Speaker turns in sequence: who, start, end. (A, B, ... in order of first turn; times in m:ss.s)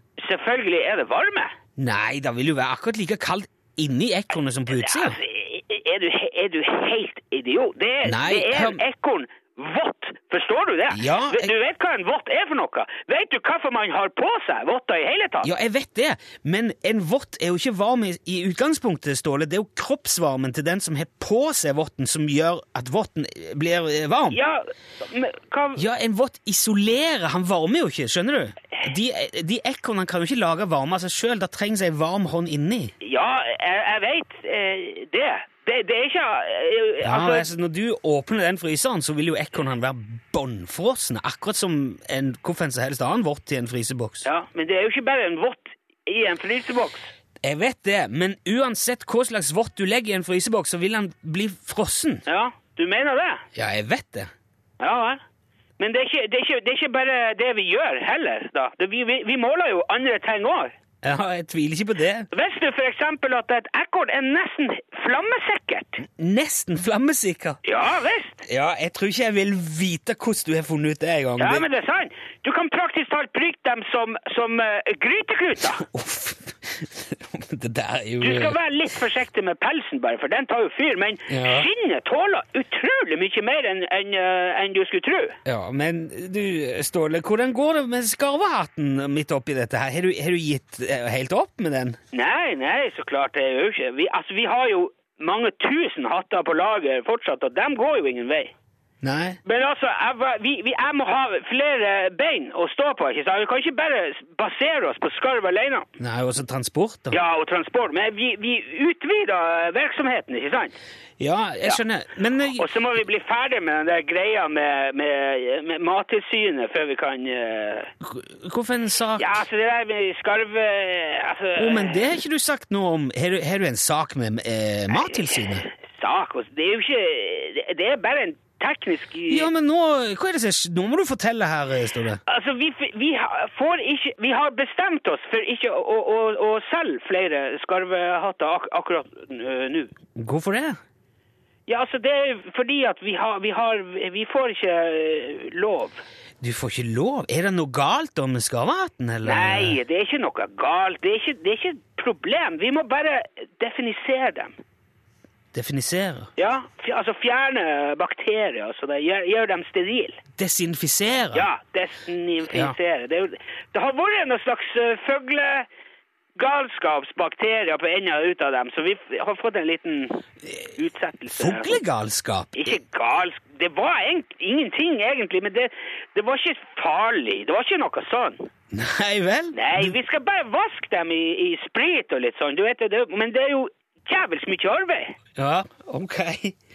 0:00.2-0:01.5 A
0:01.8-0:05.2 B
0:04.7-0:15.5 A
0:08.0-0:08.8 B
0:10.9-0:11.5 B
0:15.4-0:24.4 B
0:24.3-0:25.8 A
0:25.8-0:32.9 B
0:33.0-0:37.5 A
0:37.0-0:44.3 B
0:44.2-0:47.1 A
0:47.4-0:52.2 B
0:52.3-0:53.4 A
0:53.6-0:54.3 B
0:54.8-0:55.2 A
0:55.8-1:00.7 A
1:01.0-1:02.3 B
1:02.3-1:06.0 A
1:06.2-1:07.6 B
1:07.6-1:08.4 A
1:08.4-1:11.7 B
1:11.4-1:15.8 A
1:15.8-1:18.6 B
1:18.2-1:25.4 A
1:21.3-1:21.7 B
1:25.5-1:32.0 B
1:32.1-1:38.5 A
1:39.0-1:39.4 B
1:39.5-1:45.9 A
1:46.0-1:47.2 B
1:47.1-1:50.8 A
1:51.2-1:52.6 B
1:52.6-1:57.9 A
1:58.0-1:59.3 B
1:59.2-2:02.1 A
2:01.6-2:05.7 B
2:05.0-2:09.5 A
2:09.3-2:12.2 B
2:12.3-2:19.9 A
2:20.2-2:20.8 B
2:21.7-2:26.0 A
2:26.4-2:29.8 B
2:29.2-2:34.6 A
2:35.5-2:36.3 B
2:36.4-2:40.2 A
2:40.4-2:41.5 B
2:41.3-2:45.7 A
2:42.5-2:42.8 B
2:46.4-2:50.2 A
2:50.8-2:51.8 A
2:51.3-2:52.8 B
2:52.6-2:58.5 A
2:58.7-2:59.9 B
2:59.6-3:05.2 A
3:05.4-3:06.6 B